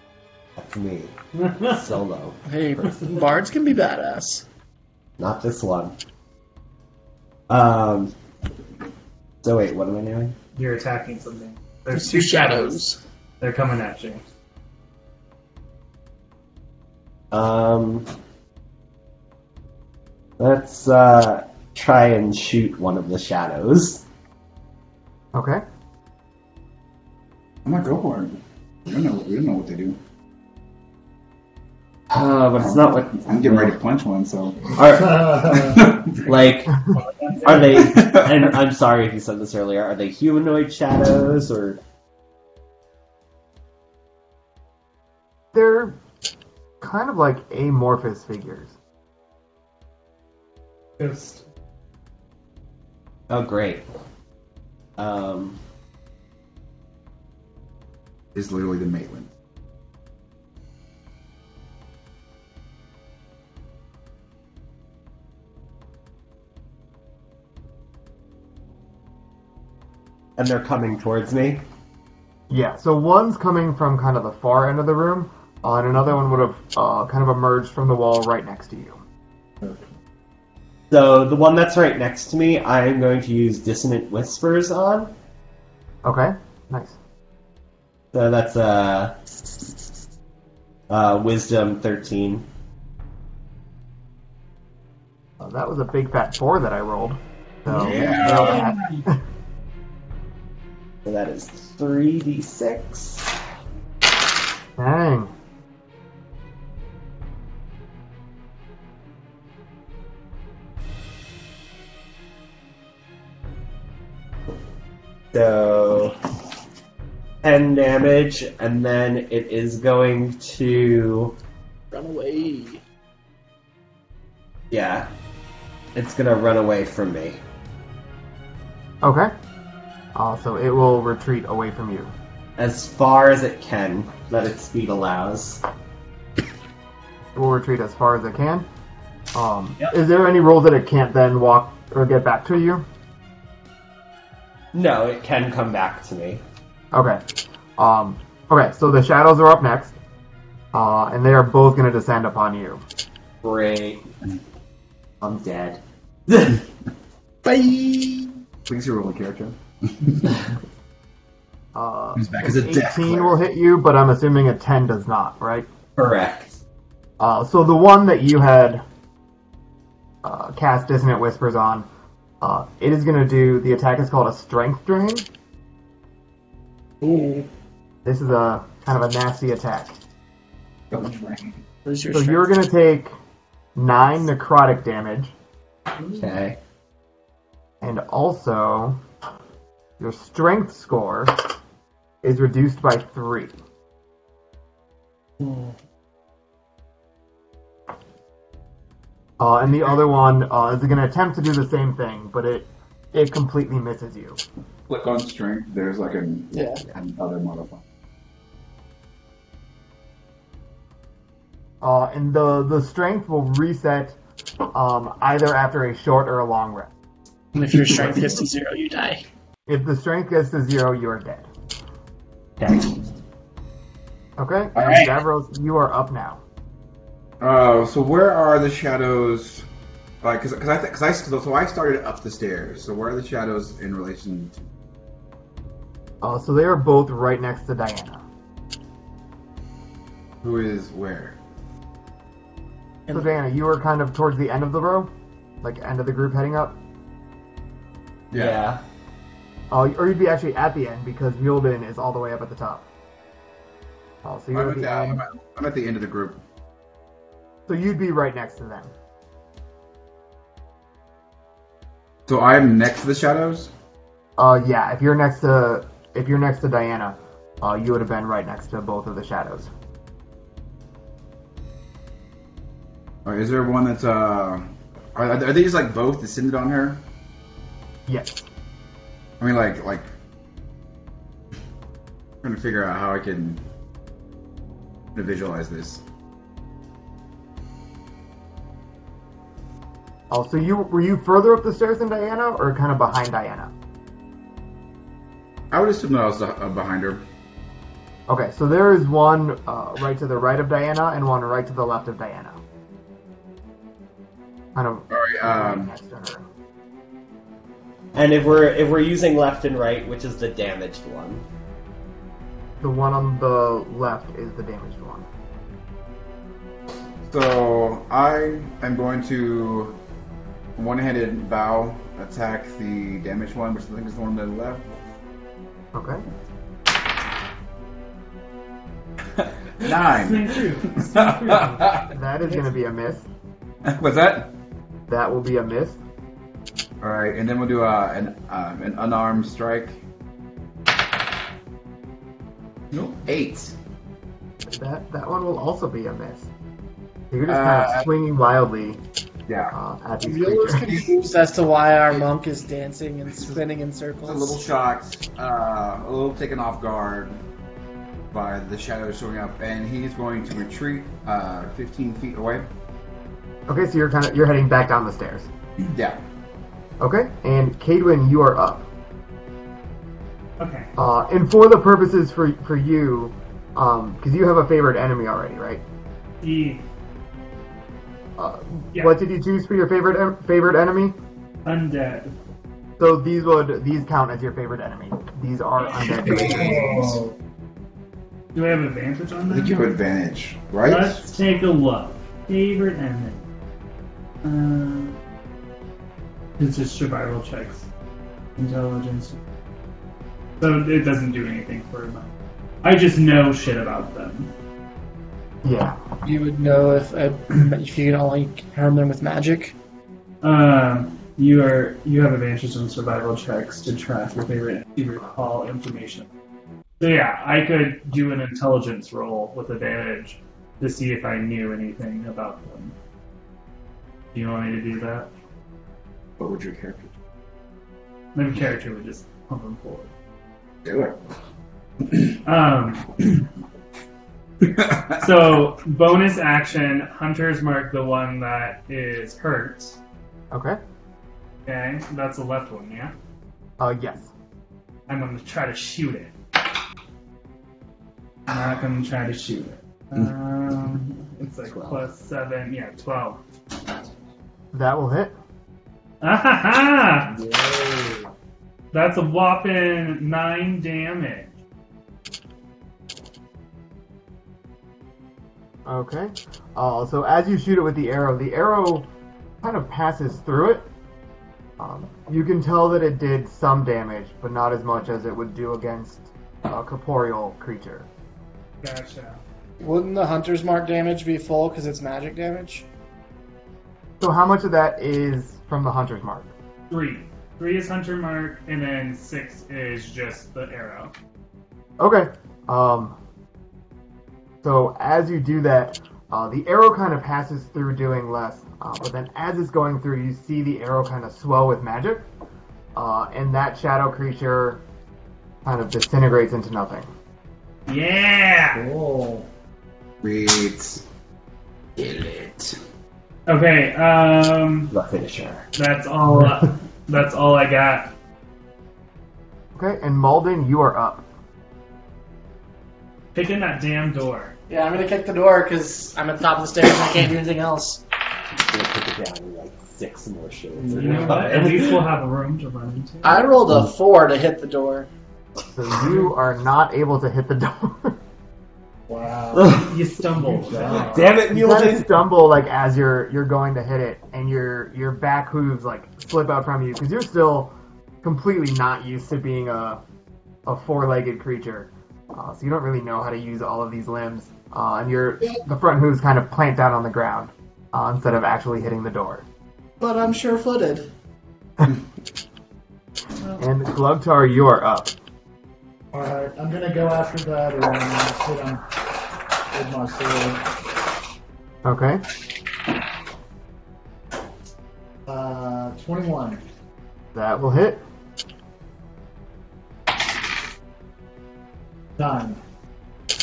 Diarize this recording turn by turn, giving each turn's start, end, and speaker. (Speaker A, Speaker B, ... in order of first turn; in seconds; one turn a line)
Speaker A: 0.6-3.1
Speaker B: 1.4-1.7
Speaker C: 2.5-4.4
Speaker A: 5.2-5.9
Speaker A: 7.5-8.1
Speaker A: 9.4-10.3
Speaker B: 10.6-12.8
Speaker C: 11.9-13.0
Speaker B: 13.4-14.2
Speaker A: 17.3-18.1
Speaker A: 20.4-24.0
Speaker D: 25.3-25.6
Speaker E: 27.6-30.0
Speaker A: 32.1-33.8
Speaker E: 32.6-34.8
Speaker A: 34.7-36.8
Speaker F: 35.1-35.8
Speaker E: 35.4-36.3
Speaker B: 36.9-37.9
Speaker A: 37.4-41.8
Speaker E: 37.7-38.5
Speaker D: 45.5-46.0
Speaker D: 46.8-48.7
Speaker B: 51.0-51.4
Speaker A: 53.3-53.8
Speaker A: 55.0-55.6
Speaker E: 58.3-59.3
Speaker A: 70.4-71.6
Speaker D: 72.5-79.0
Speaker A: 80.9-85.1
Speaker D: 86.0-87.0
Speaker A: 88.1-89.2
Speaker A: 90.9-92.5
Speaker D: 95.4-99.2
Speaker A: 97.7-98.6
Speaker E: 97.7-98.7
Speaker A: 101.0-103.3
Speaker D: 104.8-105.3
Speaker A: 115.3-116.2
Speaker A: 117.4-121.3
Speaker C: 121.9-122.8
Speaker A: 124.7-125.1
Speaker A: 125.9-127.4
Speaker D: 129.0-129.3
Speaker D: 130.1-132.1
Speaker A: 132.6-135.6
Speaker D: 137.3-138.7
Speaker D: 139.3-142.8
Speaker A: 144.7-146.4
Speaker D: 146.9-147.2
Speaker D: 147.8-149.9
Speaker D: 150.7-152.8
Speaker A: 153.4-154.0
Speaker A: 155.2-156.6
Speaker C: 157.4-158.3
Speaker E: 158.7-160.3
Speaker D: 161.7-165.7
Speaker E: 162.2-163.4
Speaker A: 165.9-166.6
Speaker D: 167.2-168.8
Speaker D: 170.2-171.9
Speaker D: 172.4-175.3
Speaker C: 177.0-177.5
Speaker D: 178.0-180.0
Speaker E: 180.9-181.5
Speaker C: 181.8-182.5
Speaker D: 182.1-183.1
Speaker D: 183.7-185.3
Speaker A: 186.0-186.6
Speaker D: 187.8-189.0
Speaker D: 190.0-191.5
Speaker D: 192.2-193.5
Speaker D: 199.4-204.4
Speaker E: 204.9-207.8
Speaker C: 206.5-206.8
Speaker D: 211.8-214.2
Speaker D: 214.7-216.9
Speaker C: 217.5-219.2
Speaker D: 219.7-221.5
Speaker A: 222.6-223.0
Speaker D: 224.4-226.4
Speaker E: 224.7-225.1
Speaker E: 227.4-229.6
Speaker E: 230.2-234.7
Speaker D: 236.2-238.2
Speaker E: 240.4-241.4
Speaker D: 243.1-245.1
Speaker D: 245.6-246.8
Speaker E: 248.3-248.6
Speaker A: 248.3-248.8
Speaker D: 249.7-252.8
Speaker D: 254.2-255.2
Speaker E: 254.5-256.4
Speaker D: 257.7-258.9
Speaker E: 262.3-263.7
Speaker D: 264.4-269.7
Speaker E: 273.2-277.0
Speaker D: 278.1-278.4
Speaker E: 279.4-280.1
Speaker E: 282.4-283.6
Speaker E: 285.1-286.0
Speaker D: 290.3-293.7
Speaker E: 295.7-297.2
Speaker D: 298.3-302.6
Speaker D: 304.7-306.4
Speaker E: 305.1-305.9
Speaker A: 308.1-311.4
Speaker D: 312.8-315.2
Speaker E: 317.3-320.0
Speaker E: 320.8-324.9
Speaker D: 325.9-326.2
Speaker E: 329.4-332.1
Speaker B: 329.8-332.1
Speaker D: 332.1-333.2
Speaker E: 333.8-334.5
Speaker D: 335.1-336.0
Speaker E: 337.0-340.0
Speaker E: 342.9-343.7
Speaker D: 344.7-346.5
Speaker D: 347.3-349.0
Speaker E: 347.5-348.1
Speaker E: 349.5-349.7
Speaker D: 349.7-350.9
Speaker C: 350.2-354.6
Speaker E: 350.8-351.1
Speaker E: 354.2-357.4
Speaker E: 358.3-362.7
Speaker D: 363.7-365.5
Speaker E: 365.8-366.2
Speaker D: 367.0-368.9
Speaker B: 370.6-370.9
Speaker D: 371.0-375.8
Speaker B: 376.4-376.8
Speaker D: 378.4-381.1
Speaker B: 381.6-382.3
Speaker D: 383.0-386.8
Speaker B: 385.8-387.2
Speaker E: 386.0-387.2
Speaker B: 388.5-389.9
Speaker E: 389.5-391.2
Speaker B: 390.8-393.4
Speaker B: 394.4-395.2
Speaker B: 396.6-397.9
Speaker B: 398.6-399.4
Speaker B: 400.6-402.3
Speaker B: 402.8-404.5
Speaker D: 405.6-406.0
Speaker C: 406.2-409.7
Speaker B: 410.4-416.3
Speaker B: 417.0-422.9
Speaker B: 424.3-425.3
Speaker E: 426.4-427.1
Speaker B: 428.3-430.1
Speaker E: 430.8-431.2
Speaker B: 432.3-433.4
Speaker E: 434.6-435.2
Speaker B: 435.1-440.0
Speaker D: 440.5-440.8
Speaker B: 441.6-443.1
Speaker D: 443.8-444.3
Speaker B: 445.1-446.3
Speaker B: 448.5-453.4
Speaker D: 454.7-455.3
Speaker B: 456.2-457.3
Speaker F: 457.3-458.3
Speaker B: 458.9-461.5
Speaker D: 465.9-469.1
Speaker D: 469.6-470.9
Speaker D: 471.8-478.1
Speaker B: 478.8-479.4
Speaker C: 479.8-482.9
Speaker D: 484.2-486.5
Speaker B: 486.9-491.1
Speaker D: 492.0-493.2
Speaker D: 494.6-502.2
Speaker D: 502.9-504.8
Speaker D: 505.6-507.1
Speaker B: 507.9-508.8
Speaker F: 508.7-509.5
Speaker E: 510.2-511.0
Speaker E: 512.0-512.8
Speaker B: 513.5-514.9
Speaker A: 514.9-515.6
Speaker B: 515.8-518.1
Speaker D: 519.7-521.2
Speaker B: 523.3-524.5
Speaker C: 524.7-528.0
Speaker A: 528.6-532.0
Speaker F: 530.8-531.7
Speaker B: 530.9-533.4
Speaker C: 533.2-535.1
Speaker D: 535.7-538.2
Speaker F: 539.1-539.8
Speaker A: 539.5-539.9
Speaker B: 539.7-541.4
Speaker F: 540.4-541.2
Speaker A: 540.8-542.1
Speaker D: 541.5-550.0
Speaker D: 550.6-559.4
Speaker C: 560.0-561.1
Speaker D: 563.6-565.1
Speaker F: 566.1-568.9
Speaker F: 569.7-570.6
Speaker D: 571.8-572.2
Speaker F: 575.2-576.6
Speaker D: 577.3-578.0
Speaker F: 582.2-582.6